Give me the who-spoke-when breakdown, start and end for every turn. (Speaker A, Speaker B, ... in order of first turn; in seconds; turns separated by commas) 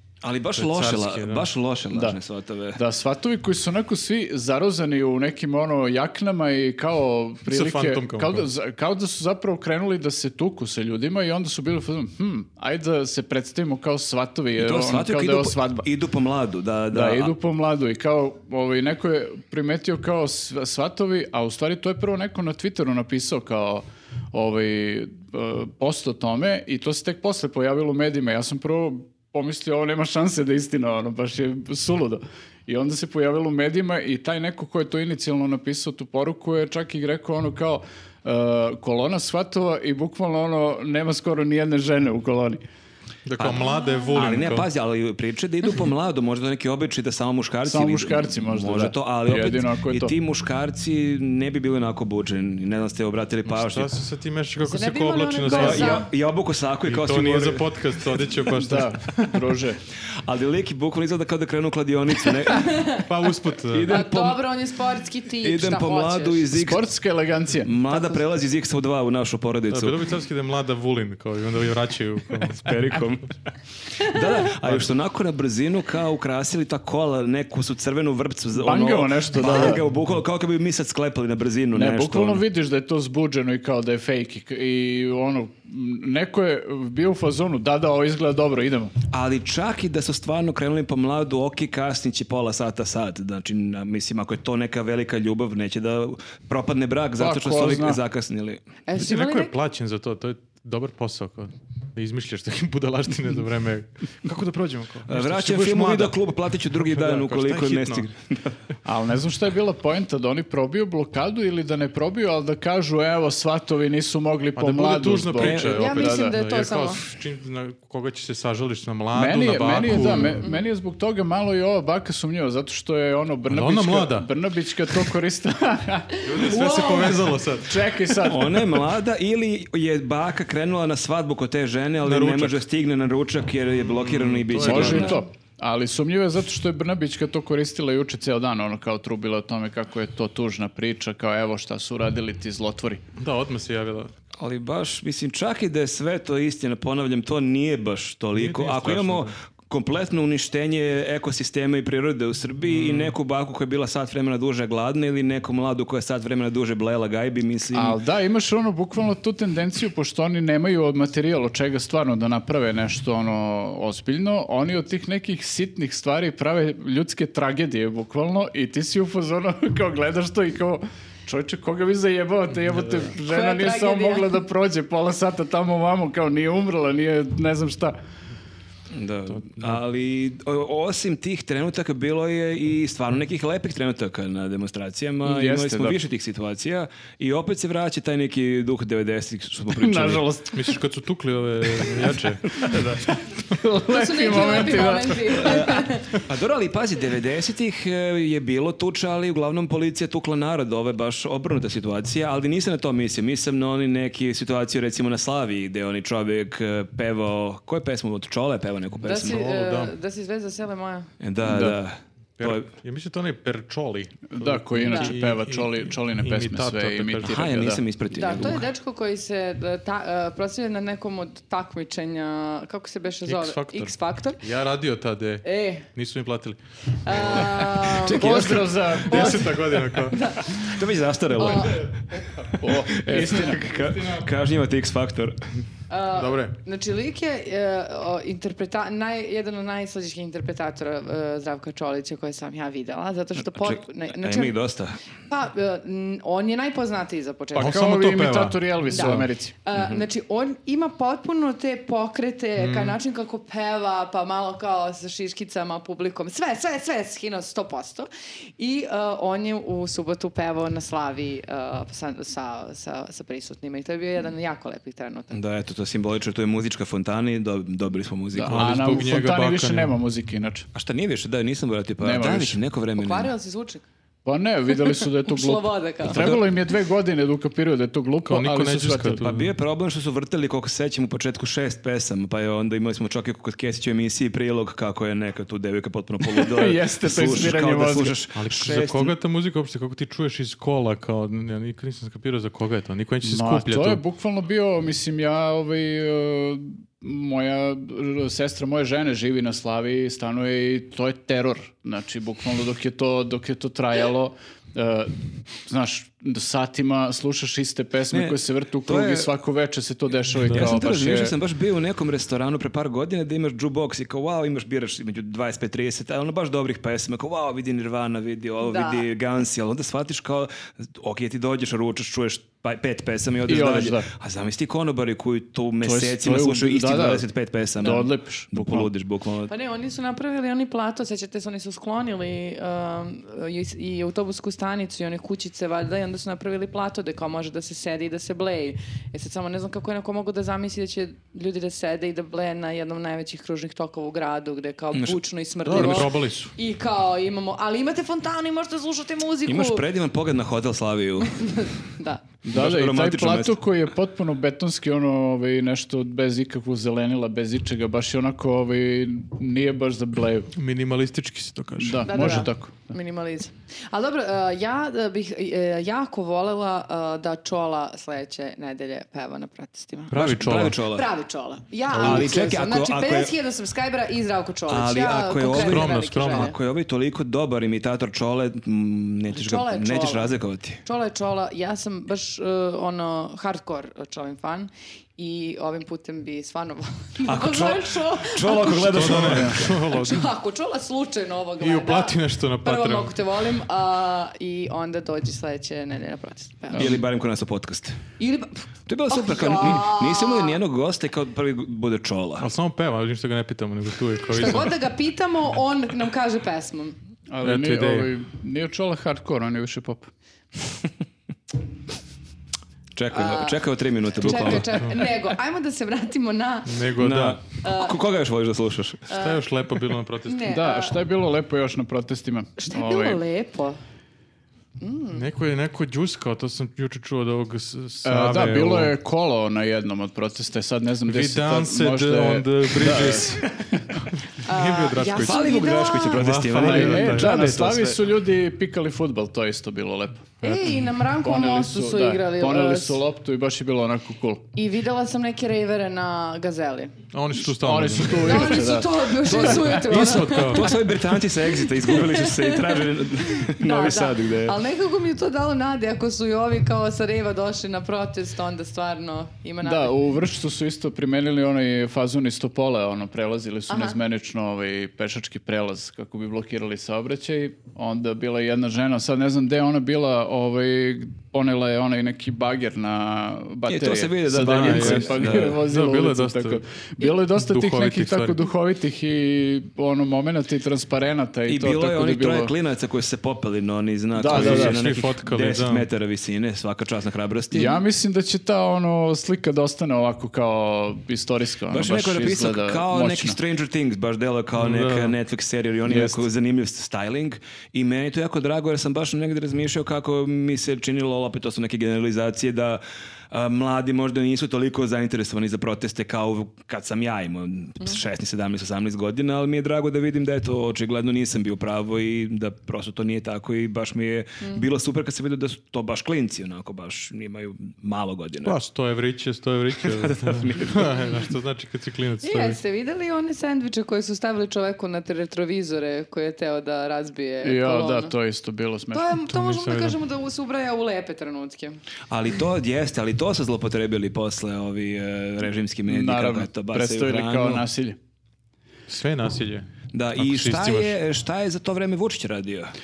Speaker A: 0.2-2.8, Speaker B: 0.6-1.4, Speaker C: 1.9-2.2, Speaker C: 2.8-15.9, Speaker B: 7.5-8.5, Speaker A: 14.6-17.3, Speaker C: 16.9-42.6, Speaker B: 43.3-44.7, Speaker A: 43.4-53.9, Speaker C: 47.6-50.1, Speaker B: 53.5-56.0, Speaker D: 54.6-56.1, Speaker A: 55.5-58.3, Speaker B: 56.9-59.4, Speaker C: 58.6-59.8, Speaker A: 60.2-62.7, Speaker D: 62.5-63.1, Speaker B: 63.0-64.0, Speaker A: 63.7-64.4, Speaker D: 63.9-66.5, Speaker A: 65.4-66.8, Speaker C: 66.5-67.9, Speaker A: 67.6-70.0, Speaker B: 69.7-72.8, Speaker A: 72.5-73.3, Speaker A: 74.0-82.4, Speaker C: 78.5-79.8, Speaker B: 79.5-79.8, Speaker C: 81.7-88.9, Speaker A: 89.1-98.6, Speaker C: 97.2-98.0, Speaker D: 98.9-99.5, Speaker B: 99.0-106.2, Speaker A: 105.1-108.6, Speaker B: 106.7-108.1, Speaker C: 108.8-116.3, Speaker B: 114.6-120.5, Speaker A: 115.4-115.7, Speaker D: 115.6-117.0, Speaker C: 119.1-126.3, Speaker D: 120.4-120.7, Speaker B: 123.5-124.3, Speaker B: 126.2-127.8, Speaker D: 126.3-127.3, Speaker C: 127.6-128.9, Speaker A: 128.2-135.2, Speaker B: 132.0-132.6, Speaker B: 134.0-135.2, Speaker C: 134.6-143.0, Speaker B: 143.2-144.1, Speaker A: 144.3-158.0, Speaker B: 148.4-149.3, Speaker B: 152.7-153.2, Speaker C: 157.7-177.9, Speaker D: 173.2-174.3, Speaker A: 178.9-190.3, Speaker B: 179.4-179.8, Speaker C: 185.2-186.0, Speaker C: 189.8-190.8, Speaker B: 190.5-192.9, Speaker A: 192.5-193.1, Speaker C: 193.5-195.7, Speaker D: 193.9-196.1, Speaker A: 195.4-209.4, Speaker D: 209.0-211.1, Speaker B: 209.1-209.9, Speaker A: 211.2-212.7, Speaker C: 211.4-211.8, Speaker B: 212.4-217.5, Speaker C: 214.3-217.8, Speaker D: 214.8-215.1, Speaker A: 217.2-218.7, Speaker D: 218.1-224.4, Speaker B: 223.2-227.7, Speaker D: 225.4-225.9, Speaker D: 227.0-228.6, Speaker A: 227.1-229.0, Speaker C: 227.9-229.7, Speaker B: 229.1-230.2, Speaker D: 229.1-230.8, Speaker A: 230.4-235.6, Speaker D: 231.3-231.9, Speaker C: 232.6-233.7, Speaker D: 235.9-244.6, Speaker B: 236.1-236.5, Speaker A: 243.5-245.0, Speaker D: 245.3-247.8, Speaker C: 247.6-249.5, Speaker B: 247.6-249.3, Speaker D: 248.9-265.4, Speaker A: 249.8-250.0, Speaker B: 252.6-253.0, Speaker A: 265.3-269.0, Speaker C: 268.4-270.7, Speaker B: 268.4-269.9, Speaker A: 270.7-273.3, Speaker C: 272.0-272.6, Speaker D: 273.0-273.9, Speaker C: 274.2-279.2, Speaker D: 275.2-276.3, Speaker A: 276.1-276.4, Speaker B: 278.3-279.5, Speaker A: 279.2-289.1, Speaker C: 286.3-288.2, Speaker B: 288.4-294.0, Speaker C: 293.2-311.3, Speaker A: 308.1-309.3, Speaker B: 310.4-310.7, Speaker A: 310.5-329.5, Speaker D: 318.6-319.1, Speaker C: 323.5-324.1, Speaker C: 325.8-328.9, Speaker D: 329.5-349.9, Speaker A: 344.9-345.2, Speaker B: 345.7-346.5, Speaker A: 345.7-346.1, Speaker A: 349.5-351.5, Speaker D: 351.2-352.2, Speaker A: 352.4-353.6, Speaker C: 352.5-360.5, Speaker B: 360.5-362.4, Speaker C: 361.8-362.8, Speaker D: 362.1-370.1, Speaker B: 370.1-370.8, Speaker A: 370.1-371.1, Speaker D: 370.9-376.6, Speaker A: 371.9-373.4, Speaker B: 372.0-372.3, Speaker A: 374.7-380.8, Speaker B: 375.5-376.5, Speaker D: 379.3-380.3, Speaker D: 380.8-396.9, Speaker A: 387.2-389.7, Speaker B: 388.8-390.3, Speaker C: 389.2-389.6, Speaker B: 391.6-393.1, Speaker C: 396.7-397.0, Speaker A: 396.7-398.0, Speaker D: 398.2-400.6, Speaker A: 398.9-402.5, Speaker B: 402.4-404.7, Speaker D: 404.3-406.9, Speaker C: 407.3-410.1, Speaker B: 407.4-408.1, Speaker A: 412.9-415.1, Speaker D: 413.1-413.6, Speaker D: 414.1-416.8, Speaker B: 414.4-415.0, Speaker B: 416.7-417.4, Speaker A: 417.0-419.2, Speaker D: 417.6-417.9, Speaker D: 419.1-419.4, Speaker B: 419.1-420.5, Speaker D: 420.3-421.0, Speaker C: 420.5-423.2, Speaker D: 422.6-423.8, Speaker D: 424.8-425.2, Speaker B: 425.1-428.9, Speaker C: 428.1-434.0, Speaker B: 431.1-433.5, Speaker D: 434.4-436.2, Speaker B: 434.4-435.4, Speaker A: 435.2-438.0, Speaker B: 436.1-437.7, Speaker C: 436.5-440.5, Speaker D: 440.4-443.0, Speaker C: 441.2-444.5, Speaker D: 444.5-446.9, Speaker B: 447.1-448.6, Speaker C: 447.4-449.1, Speaker D: 448.2-450.8, Speaker A: 449.2-454.6, Speaker B: 449.7-450.7, Speaker D: 451.8-459.9, Speaker C: 459.6-482.5, Speaker D: 463.7-464.0, Speaker A: 473.7-475.6, Speaker B: 474.3-476.6, Speaker B: 477.3-478.4, Speaker A: 481.5-487.8, Speaker C: 484.1-484.8, Speaker B: 484.3-485.9, Speaker C: 487.5-493.4, Speaker A: 491.7-518.6, Speaker B: 494.6-495.1, Speaker C: 495.9-496.2, Speaker B: 518.4-522.6, Speaker A: 519.8-521.1, Speaker D: 522.2-528.1, Speaker C: 527.4-529.1, Speaker D: 528.9-531.8, Speaker B: 529.2-530.0, Speaker A: 532.1-537.6, Speaker C: 535.9-538.0, Speaker B: 538.9-541.0, Speaker A: 539.9-542.7